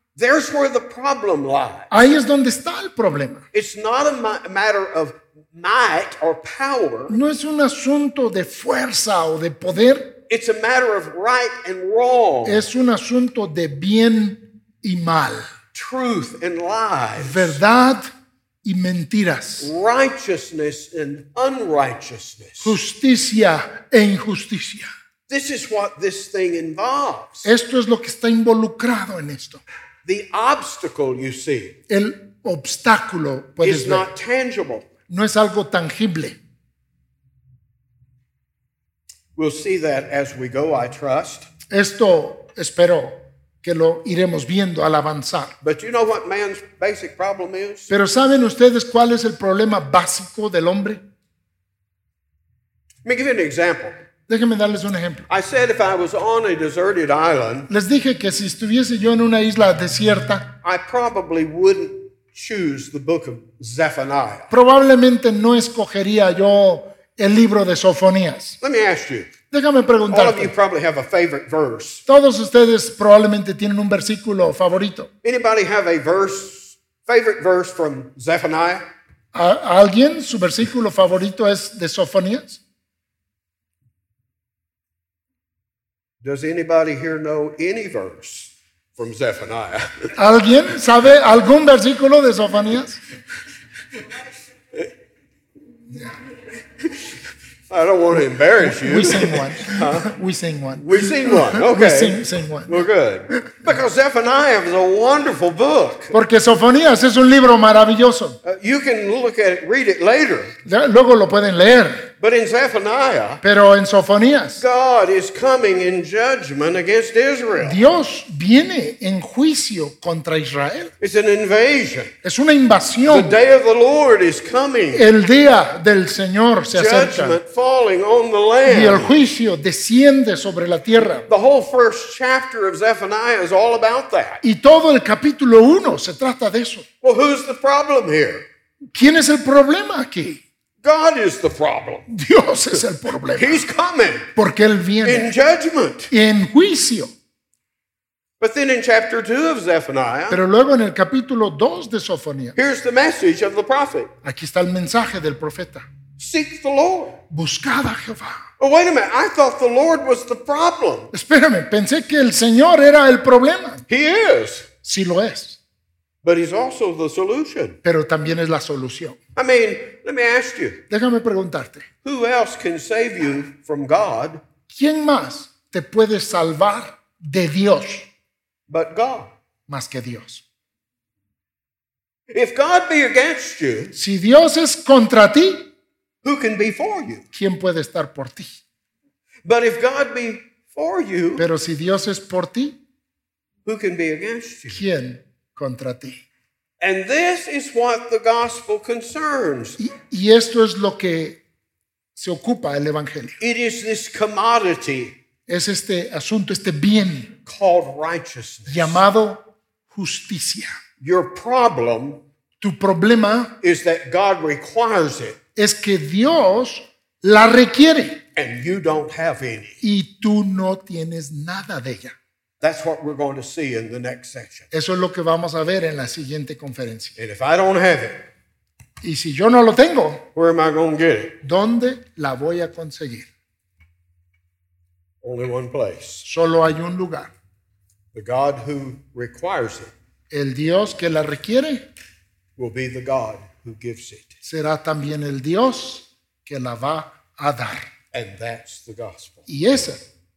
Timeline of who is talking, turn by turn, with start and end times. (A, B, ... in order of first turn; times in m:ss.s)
0:00.1-0:01.9 A
0:01.9-0:03.4 B
0:03.5-0:07.1 A
0:07.1-0:10.2 B
0:10.3-0:12.6 A
0:12.4-0:15.5 B
0:15.7-0:17.6 A
0:17.2-0:18.1 B
0:18.6-0:19.7 B
0:19.6-0:22.8 A
0:22.6-0:24.9 B
0:25.3-0:27.5 A
0:27.4-0:29.6 B
0:30.0-0:31.8 A
0:31.9-0:34.1 B
0:33.6-0:34.9 A
0:35.1-0:36.4 B
0:39.4-0:41.5 A
0:41.7-0:45.6 B
0:45.6-0:47.9 A
0:47.9-0:51.0 B
0:53.0-0:53.9 A
0:54.3-0:55.3 B
0:55.3-0:57.7 A
0:57.7-1:00.6 B
1:00.6-1:04.5 A
1:04.5-1:08.6 B
1:08.6-1:09.3 A
1:09.5-1:10.5 B
1:10.1-1:12.0 A
1:12.1-1:15.1 B
1:15.2-1:18.8 A
1:19.3-1:22.6 B
1:26.2-1:30.1 A
1:30.1-1:33.0 B
1:36.8-1:37.0 A
1:37.7-1:40.1 A
1:38.6-1:42.9 B
1:40.8-1:46.1 A
1:46.1-1:48.4 B
1:48.4-1:50.6 A
1:50.6-1:52.1 B
1:52.2-1:53.4 A
1:53.4-1:54.6 B
1:54.6-1:57.8 A
1:57.6-2:00.9 B
2:01.0-2:02.1 A
2:02.2-2:03.4 B
2:03.0-2:05.1 A
2:04.9-2:07.4 B
2:06.7-2:09.2 A
2:08.6-2:11.3 B
2:11.2-2:14.4 A
2:14.4-2:16.9 B
2:17.0-2:18.4 A
2:18.9-2:20.4 B
2:20.8-2:22.1 A
2:22.1-2:23.6 B
2:23.3-2:24.3 A
2:24.4-2:25.3 B
2:25.0-2:26.1 A
2:26.1-2:27.1 B
2:28.4-2:30.4 A
2:30.3-2:32.6 B
2:32.6-2:34.1 A
2:34.2-2:35.9 B
2:36.2-2:37.2 A
2:37.3-2:38.4 B
2:38.6-2:41.1 A
2:41.1-2:43.8 B
2:43.9-2:44.7 A
2:44.8-2:45.6 B
2:46.2-2:47.8 A
2:47.8-2:49.2 B
2:49.4-2:50.8 A
2:50.9-2:51.9 B
2:52.0-2:54.4 A
2:54.7-2:58.1 B
2:58.7-2:59.3 A
2:59.7-3:00.4 B
3:02.3-3:03.9 A
3:03.9-3:05.7 B
3:06.2-3:07.2 A
3:07.3-3:08.5 B
3:09.4-3:11.4 A
3:11.4-3:12.8 B
3:13.6-3:14.8 A
3:14.7-3:16.2 B
3:16.8-3:19.8 A
3:19.8-3:21.4 B
3:22.2-3:23.4 B
3:23.4-3:25.2 A
3:25.5-3:27.3 B
3:27.4-3:29.0 A
3:28.7-3:30.7 B
3:31.0-3:32.2 A
3:32.6-3:33.6 B
3:33.6-3:35.4 A
3:35.6-3:38.2 B
3:38.3-3:39.8 A
3:39.8-3:42.2 B
3:42.6-3:44.7 A
3:44.7-3:47.2 B
3:47.2-3:48.3 A
3:49.0-3:50.3 B
3:50.3-3:51.4 A
3:51.4-3:53.3 B
3:55.2-3:56.3 A
3:56.2-3:57.3 B
3:58.1-3:59.9 A
4:00.3-4:01.9 B
4:02.6-4:04.3 A
4:04.4-4:07.9 B
4:08.1-4:09.4 A
4:09.5-4:10.0 B